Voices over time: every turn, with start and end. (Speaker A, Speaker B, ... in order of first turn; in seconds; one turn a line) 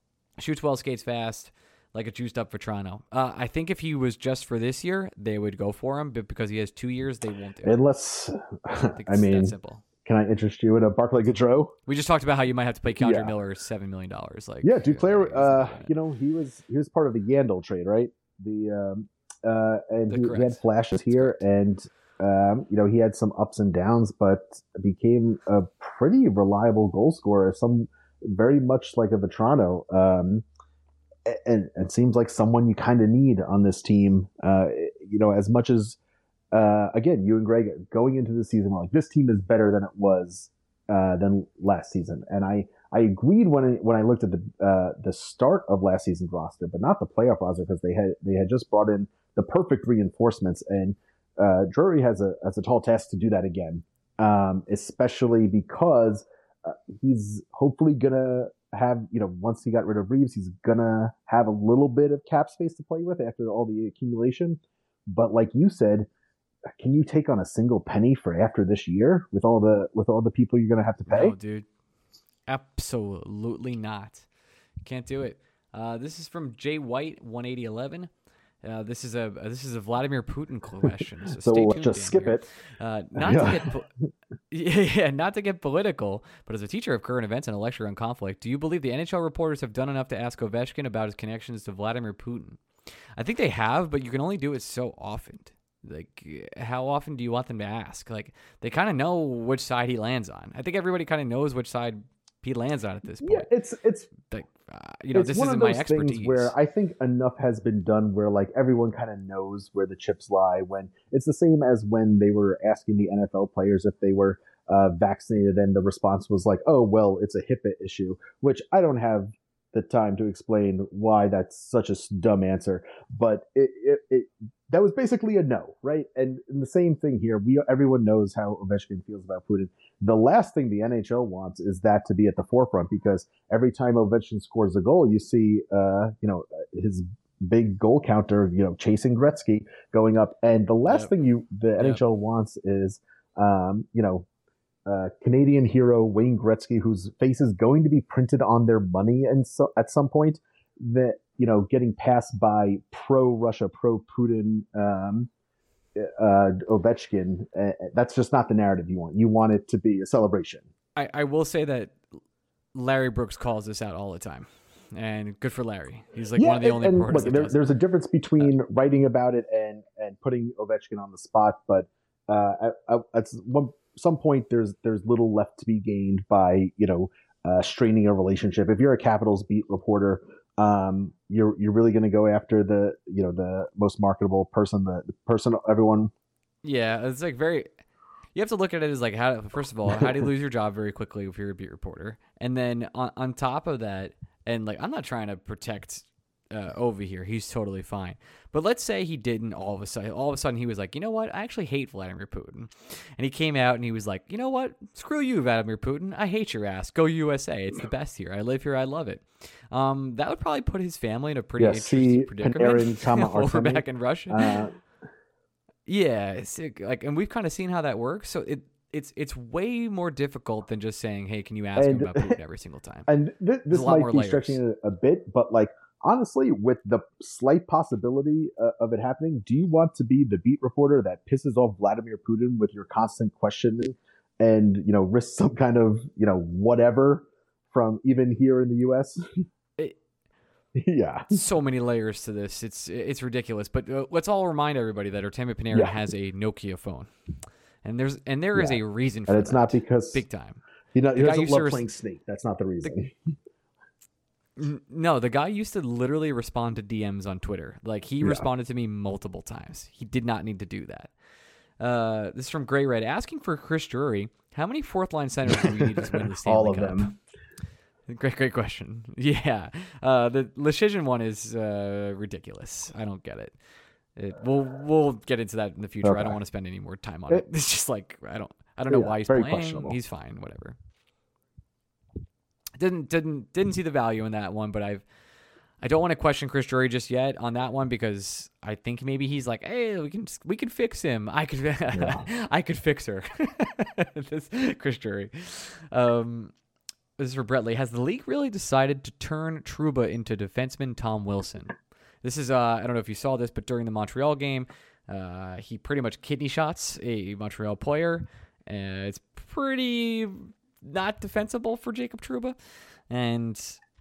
Speaker A: 0.4-7.8
Speaker B: 7.6-11.8
Speaker A: 8.9-9.8
Speaker A: 11.9-15.9
Speaker B: 13.0-13.3
Speaker B: 14.6-30.4
Speaker A: 20.1-21.4
Speaker B: 31.3-36.0
Speaker B: 36.5-66.1
Speaker B: 66.8-71.4
Speaker A: 71.1-71.7
Speaker A: 72.5-74.2
Speaker A: 74.8-78.1
Speaker A: 78.6-83.9
Speaker B: 81.4-82.5
Speaker B: 83.2-83.7
Speaker A: 84.5-92.6
Speaker A: 93.2-103.5
Speaker B: 103.2-104.1
Speaker A: 104.3-106.5
Speaker B: 105.1-144.3
Speaker A: 140.9-141.1
Speaker B: 144.9-155.3
Speaker B: 155.9-160.7
Speaker A: 161.0-162.0
Speaker A: 162.7-167.6
Speaker B: 166.4-186.1
Speaker A: 186.6-187.7
Speaker A: 188.3-214.7
Speaker B: 211.6-214.8
Speaker A: 215.9-223.1
Speaker B: 221.8-222.4
Speaker B: 223.1-239.2
Speaker A: 223.7-224.6
Speaker B: 240.8-241.4
Speaker A: 241.3-247.1
Speaker A: 247.8-250.6
Speaker B: 248.6-250.2
Speaker B: 250.9-253.2
Speaker A: 251.2-251.9
Speaker A: 254.6-261.1
Speaker A: 261.8-267.1
Speaker B: 265.6-267.1
Speaker A: 268.1-273.6
Speaker A: 274.2-280.8
Speaker B: 276.0-276.4
Speaker B: 278.9-280.0
Speaker A: 282.8-285.0
Speaker A: 285.8-296.5
Speaker B: 291.9-292.3
Speaker A: 297.2-312.6
Speaker A: 313.1-313.8